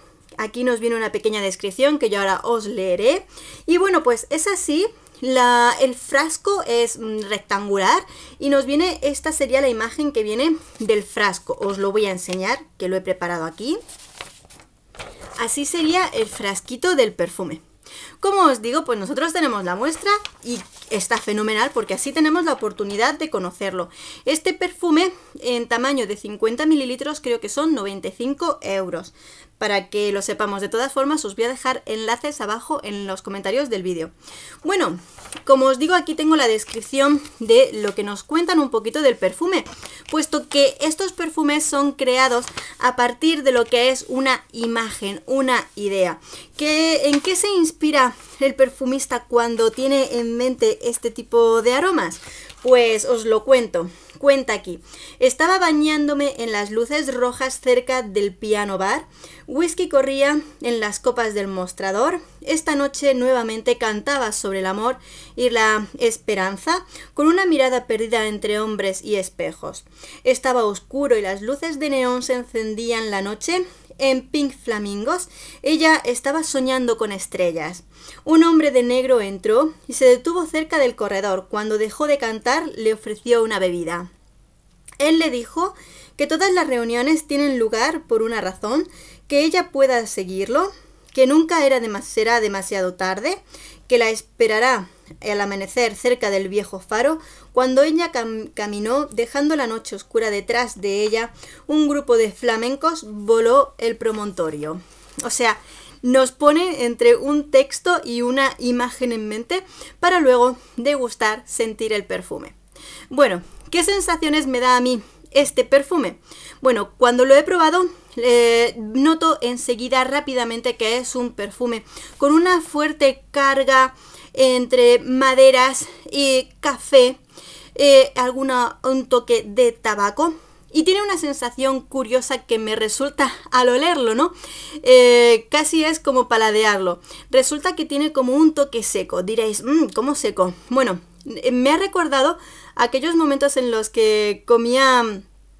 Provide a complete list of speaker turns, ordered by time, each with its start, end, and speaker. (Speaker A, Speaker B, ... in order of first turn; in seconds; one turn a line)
Speaker A: 0.4-13.8
Speaker A: 15.4-17.6
Speaker A: 18.2-34.1
Speaker A: 34.6-84.1
Speaker A: 85.0-112.5
Speaker A: 113.1-127.2
Speaker A: 127.7-145.2